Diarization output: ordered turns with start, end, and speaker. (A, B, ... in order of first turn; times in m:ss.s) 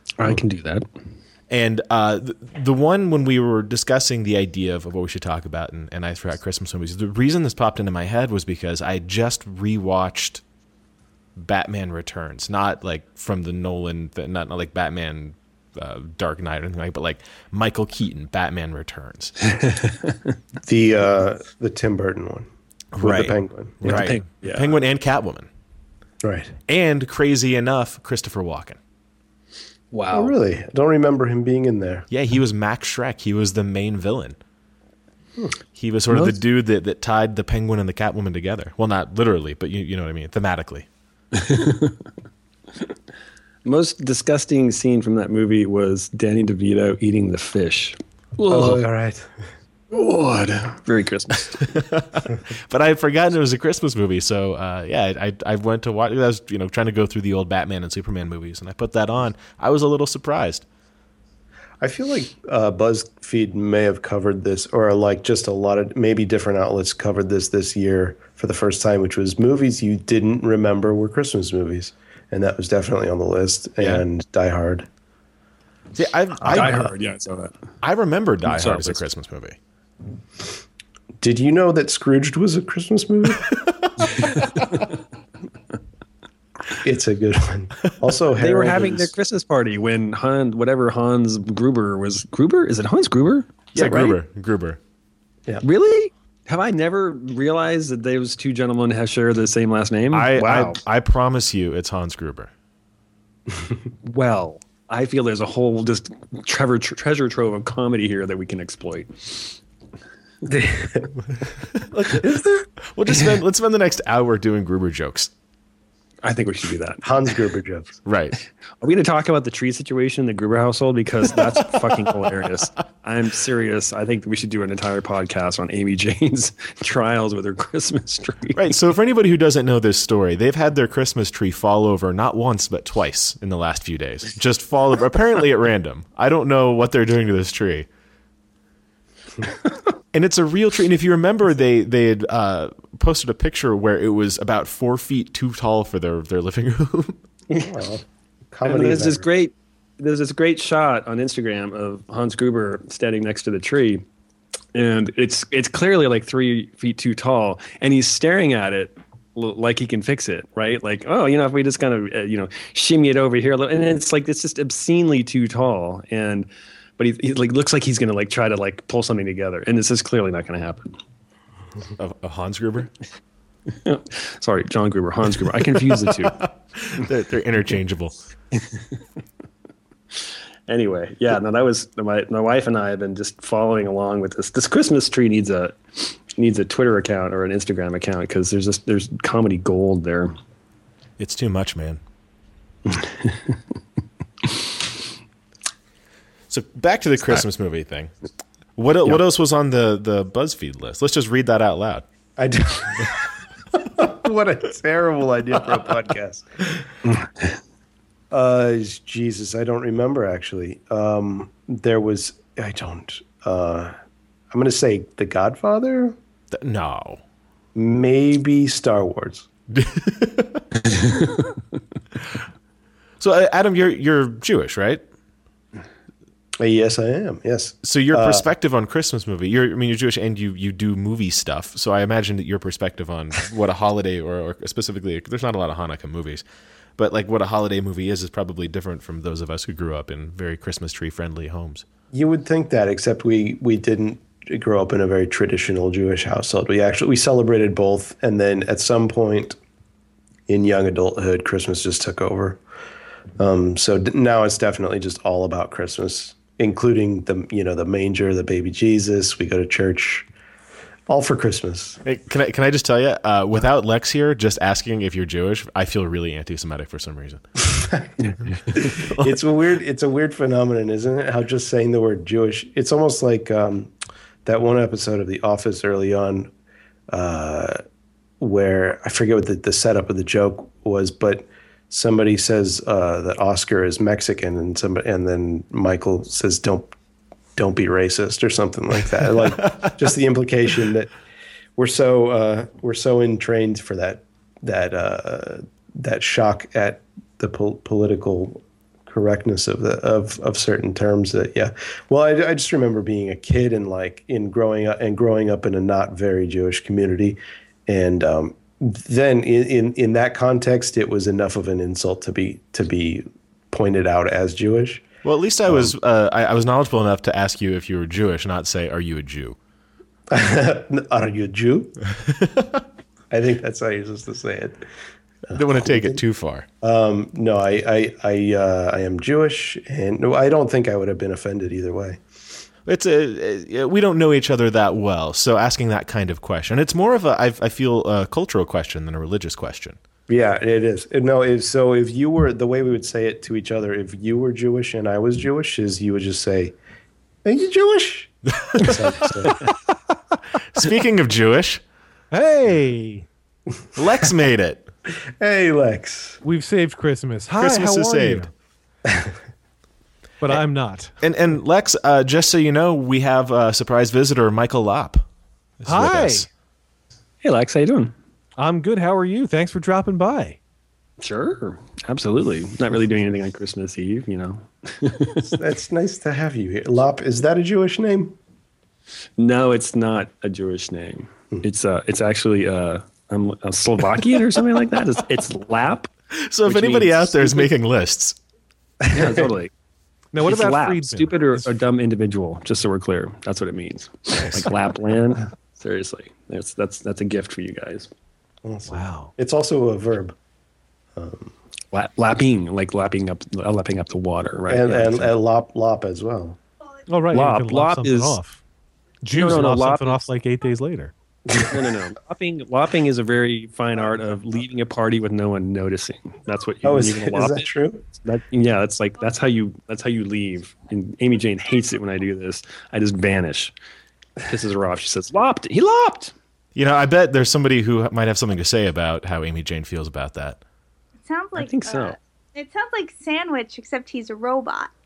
0:00.2-0:00.8 A
0:01.5-0:10.4 B
0:11.4-0:19.5 B
0:19.7-0:20.1 A
0:20.6-0:22.5 C
0:23.0-0:23.3 B
0:23.0-0:24.1 C
0:23.0-0:23.3 A
0:23.8-0:24.8 A
0:23.8-0:25.5 B
0:26.2-0:26.6 C
0:26.7-0:28.8 B
0:29.9-0:30.3 A
0:30.1-0:32.1 C
0:32.1-0:34.4 B
0:35.7-0:40.9 B
0:36.1-0:36.4 A
0:41.3-0:42.0 A
0:43.6-0:48.8 A
0:48.5-0:49.4 C
0:49.9-0:51.8 A
0:51.7-1:00.6 B
1:01.8-1:14.9 C
1:13.8-1:14.0 B
1:16.0-1:16.9 B
1:16.4-1:17.5 A
1:17.8-1:19.6 B
1:18.4-1:19.0 A
1:21.2-1:23.6 C
1:26.7-1:29.1 C
1:28.3-1:34.2 A
1:33.7-1:34.8 B
1:35.6-1:40.8 A
1:40.1-1:42.5 B
1:44.0-1:49.6 A
1:50.4-1:51.2 C
1:51.8-1:55.3 B
1:52.1-1:52.7 C
1:56.2-1:57.1 A
1:57.0-1:58.0 C
1:58.0-1:58.4 B
1:58.8-2:08.8 A
2:08.5-2:17.9 B
2:20.1-2:27.2 B
2:27.5-2:29.3 C
2:28.6-2:34.0 A
2:34.7-2:51.0 A
2:52.0-2:52.9 B
2:53.8-2:56.4 A
2:55.8-2:58.2 B
2:58.5-2:58.8 A
3:00.2-3:10.3 A
3:11.2-3:12.0 B
3:16.5-3:18.1 B
3:18.8-3:22.0 B
3:22.4-3:23.2 C
3:23.7-3:26.8 C
3:28.3-3:33.9 C
3:34.5-3:36.2 C
3:36.5-3:37.2 B
3:37.7-3:39.5 C
3:39.7-3:40.6 B
3:43.2-3:45.0 B
3:46.6-3:48.5 C
3:47.8-3:56.4 B
3:57.0-4:01.8 B
4:02.1-4:09.6 C
4:10.5-4:12.6 C
4:13.4-4:20.3 C
4:21.1-4:22.0 C
4:22.0-4:27.7 B
4:27.7-4:28.1 C
4:28.7-4:33.9 C
4:28.9-4:29.4 B
4:34.4-4:36.5 C
4:37.1-4:37.8 C
4:38.4-4:46.9 C
4:47.6-4:51.1 C
4:51.8-5:15.0 C
5:15.2-5:19.6 B
5:15.6-5:15.9 C
5:20.3-5:22.0 C
5:23.3-5:24.8 C
5:25.5-5:26.2 C
5:25.5-5:26.6 B
5:26.8-5:32.2 C
5:32.8-5:40.0 B
5:40.3-5:46.7 C
5:47.4-5:49.6 C
5:48.6-5:48.9 B
5:50.7-5:51.8 B
5:52.3-5:53.3 D
5:54.0-5:54.9 B
5:55.4-5:56.4 C
5:56.4-5:58.5 D
5:57.6-5:58.5 B
5:59.1-5:59.3 C
6:00.4-6:01.2 D
6:01.2-6:05.2 B
6:05.8-6:06.5 B
6:05.8-6:06.5 D
6:07.4-6:08.1 A
6:08.6-6:10.6 D
6:11.2-6:15.5 A
6:15.4-6:18.4 C
6:19.4-6:26.1 A
6:26.4-6:28.4 B
6:26.6-6:27.7 A
6:29.0-6:29.3 C
6:29.1-6:29.7 A
6:30.3-6:31.7 D
6:30.4-6:38.1 A
6:38.6-6:40.4 C
6:38.9-6:39.3 D
6:41.1-6:41.5 C
6:41.9-6:45.3 A
6:44.7-6:46.6 C
6:47.1-6:48.6 D
6:47.3-6:48.4 A
6:49.2-6:51.1 D
6:49.3-6:50.3 A
6:51.5-6:51.7 C
6:51.5-6:57.7 A
6:56.8-6:58.0 C
6:58.2-7:03.7 A
7:04.4-7:06.3 A
7:06.7-7:10.6 B
7:11.2-7:14.9 E
7:11.5-7:12.2 A